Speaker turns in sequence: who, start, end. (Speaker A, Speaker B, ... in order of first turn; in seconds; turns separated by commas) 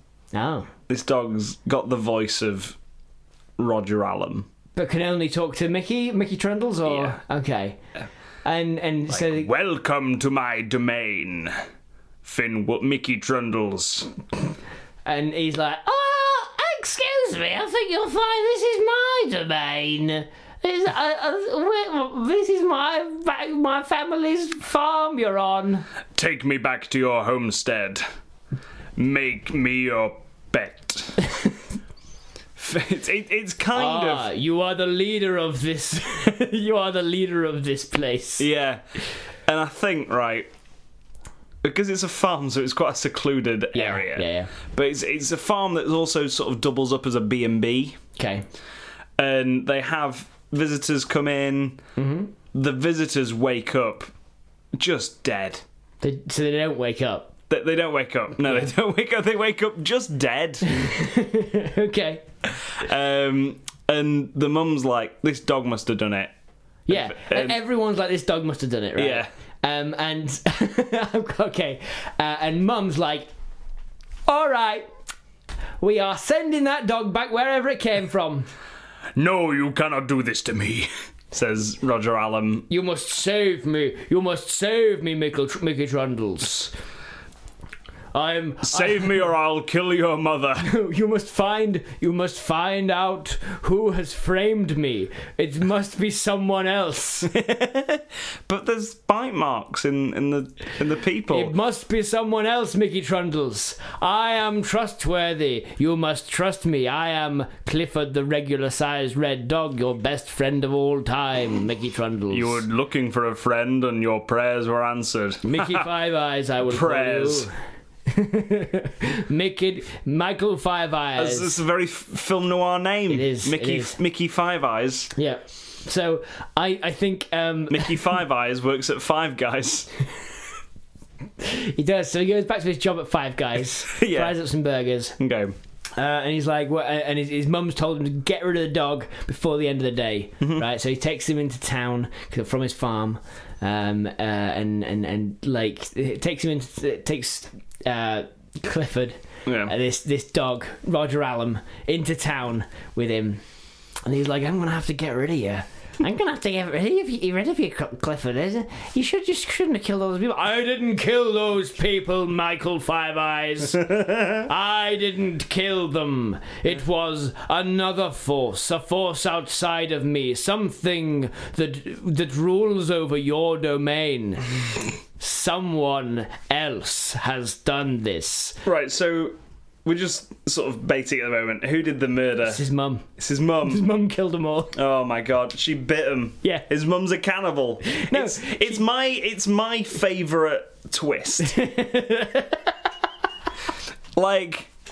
Speaker A: 0.3-0.7, Speaker B: 0.9-2.8, Speaker B: 3.6-4.5, Speaker A: 4.8-7.8, Speaker B: 6.9-7.2, Speaker A: 8.4-9.5, Speaker B: 9.1-11.5, Speaker B: 12.2-14.1, Speaker A: 15.1-25.9, Speaker B: 26.1-28.0, Speaker B: 29.0-31.3, Speaker B: 32.6-34.3, Speaker A: 33.7-38.5, Speaker B: 38.4-38.8, Speaker B: 39.5-40.5, Speaker B: 41.6-48.0, Speaker A: 43.7-44.5, Speaker A: 48.2-48.5, Speaker B: 49.2-51.8, Speaker A: 52.0-52.3, Speaker B: 52.5-54.1, Speaker B: 54.8-55.6, Speaker A: 56.0-57.3, Speaker B: 57.5-61.0, Speaker A: 60.6-62.2, Speaker B: 62.6-66.3, Speaker A: 66.9-73.3, Speaker B: 66.9-67.6, Speaker B: 69.0-69.3, Speaker A: 74.3-74.9, Speaker A: 75.8-78.5, Speaker B: 79.2-82.7, Speaker A: 82.7-86.7, Speaker A: 88.1-89.2, Speaker B: 88.6-90.7, Speaker A: 90.6-97.4, Speaker B: 97.4-101.5, Speaker A: 101.3-112.6, Speaker B: 112.3-115.9, Speaker A: 115.4-117.6, Speaker B: 116.7-117.5, Speaker A: 118.1-121.5, Speaker B: 121.2-125.1, Speaker A: 123.1-124.0, Speaker A: 125.2-128.1, Speaker B: 127.7-129.9, Speaker A: 131.4-135.2, Speaker B: 133.9-134.4, Speaker B: 135.2-135.5, Speaker A: 136.0-153.4, Speaker B: 149.5-149.7, Speaker A: 154.0-174.5, Speaker A: 175.2-178.6, Speaker B: 178.7-182.7, Speaker A: 182.5-183.1, Speaker B: 183.2-183.9, Speaker A: 183.6-184.8, Speaker B: 184.7-191.6, Speaker A: 187.8-188.8, Speaker A: 191.4-192.7, Speaker B: 194.2-194.7